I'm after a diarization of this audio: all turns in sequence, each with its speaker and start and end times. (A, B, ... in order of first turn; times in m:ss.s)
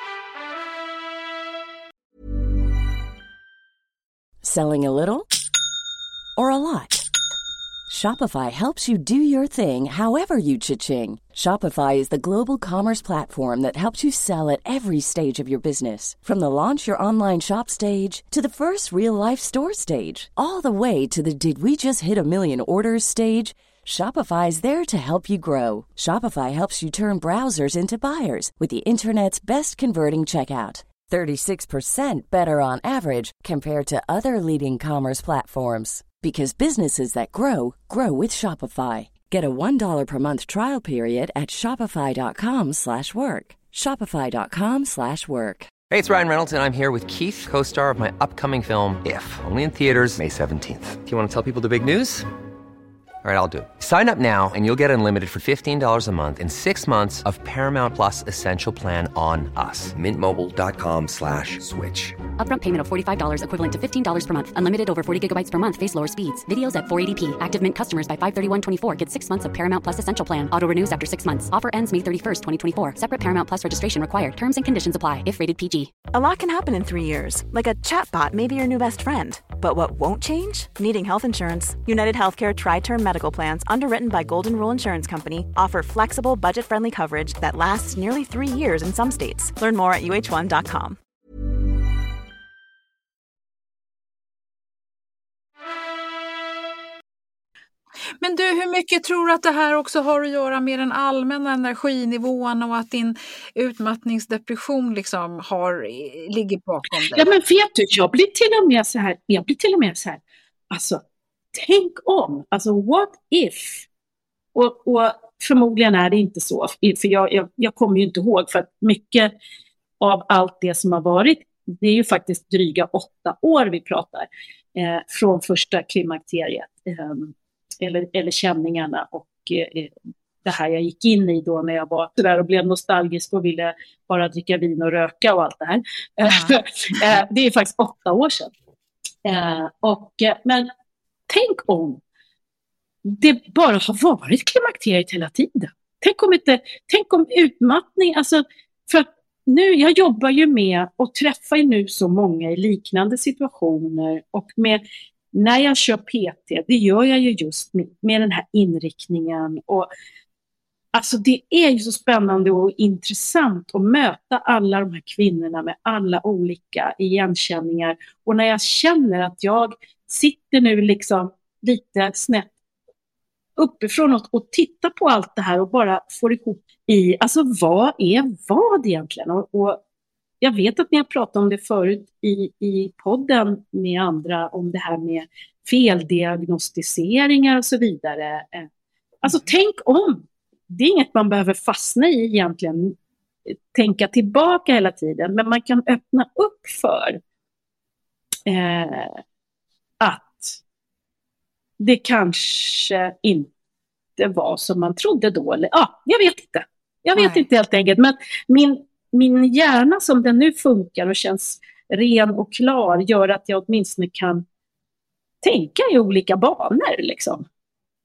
0:04.4-0:05.3 A
0:06.4-0:07.1 A
0:07.9-0:45.7 A
0:45.9-0:52.3 B
0:53.2-1:02.2 B
1:02.4-1:16.0 C
1:16.1-1:31.0 D
1:38.2-1:47.3 E
1:47.2-1:50.2 F
1:50.7-1:51.0 F
1:51.5-1:53.9 F
1:54.6-1:59.3 F
2:00.0-2:09.9 F
2:10.4-2:18.5 F
2:16.3-2:16.5 E
2:19.2-2:20.7 F
2:21.3-2:22.0 F
2:23.0-2:34.8 F
2:35.3-2:39.9 F
2:40.9-2:52.5 F
2:53.6-2:59.8 F
3:00.4-3:08.7 F
3:09.2-3:12.9 F
3:13.7-3:17.2 F
3:18.5-3:19.2 F
3:20.0-3:20.6 F
3:21.8-3:23.5 F
3:24.2-3:34.4 F
3:27.2-3:27.4 E
3:35.4-3:37.4 F